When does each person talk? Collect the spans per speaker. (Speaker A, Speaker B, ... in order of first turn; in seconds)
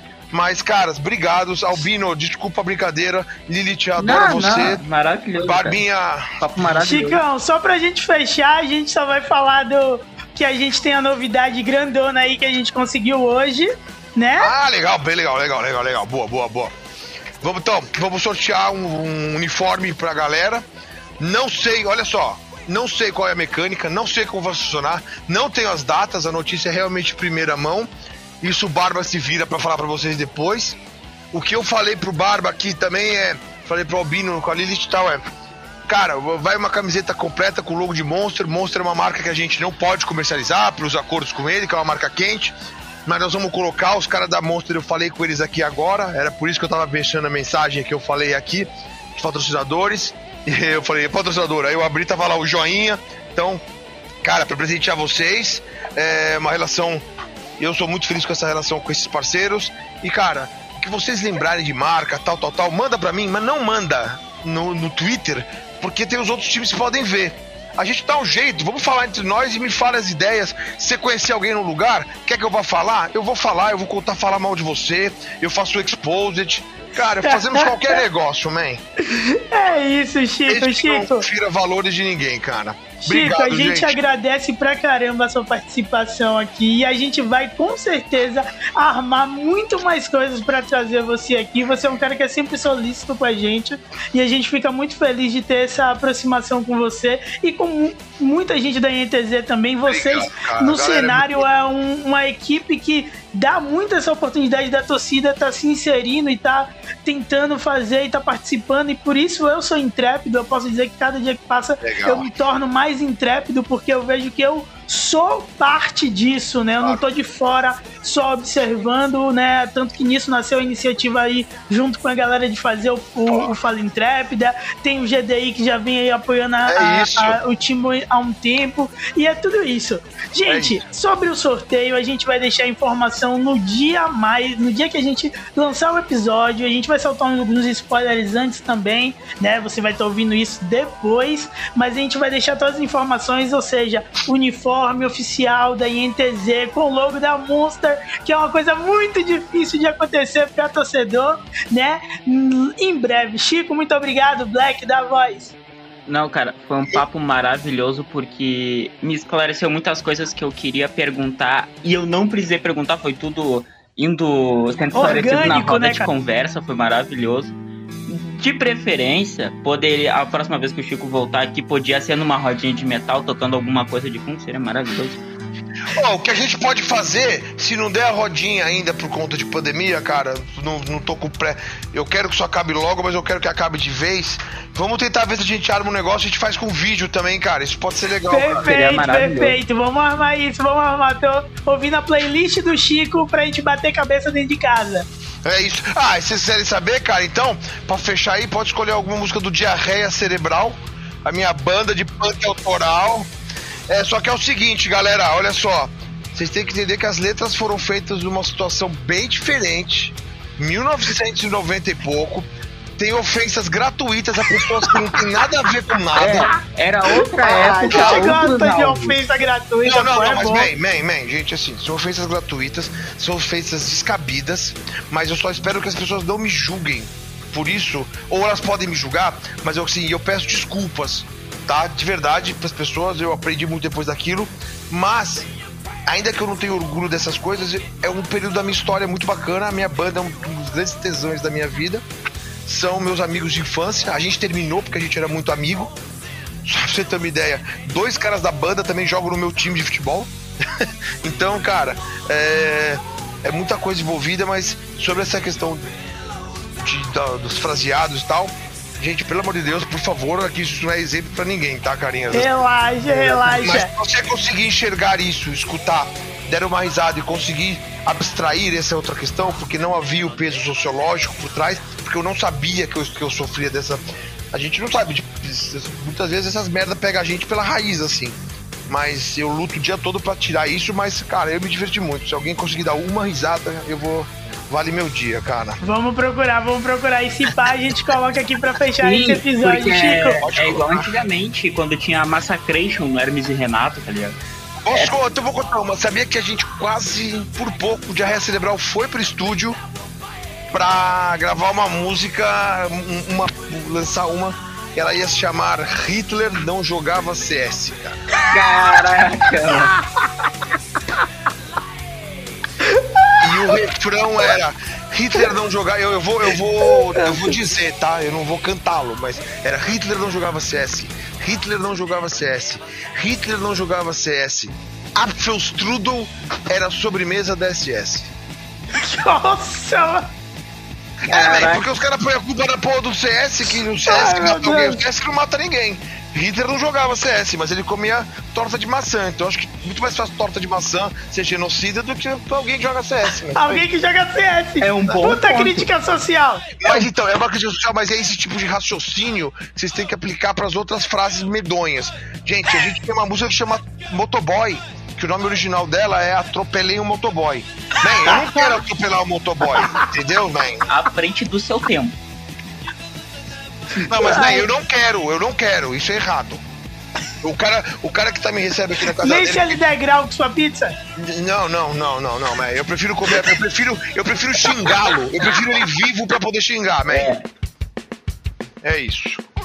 Speaker A: 0.3-4.8, 5.4-6.4, 14.4-16.7, 17.4-20.6, 21.2-27.9, 28.4-30.8, 31.3-35.2, 35.9-42.5, 43.0-53.6, 54.2-57.0, 57.6-78.8, 80.5-84.0, 99.8-101.5, 111.8-112.3, 126.7-127.4, 130.4-130.8, 175.9-188.7, 195.4-203.3, 203.9-216.5, 217.9-218.4, 219.8-235.5, 236.1-242.0, 242.7-245.9, 246.6-255.9, 256.8-262.5, 263.1-285.8, 290.4-291.1, 294.8-299.8, 300.7-308.2, 313.4-328.3, 331.2-343.9, 346.8-360.9, 364.0-366.6, 367.4-369.8, 371.1-377.3, 378.8-379.4
Speaker B: 4.0-5.8, 6.4-7.2, 156.1-167.5, 168.1-175.2, 188.6-189.6, 216.1-219.2, 289.0-294.3, 308.5-309.9, 331.2-331.8, 344.8-345.9, 360.9-362.1, 377.1-377.4
Speaker C: 6.8-14.5, 77.2-78.0, 79.0-81.2, 83.0-155.6, 164.9-166.1, 188.3-195.1, 217.4-220.7, 262.3-263.9, 285.8-290.4, 312.8-313.8, 317.1-317.5, 328.9-330.3, 334.0-335.0, 343.5-347.0, 364.0-364.7, 369.2-370.9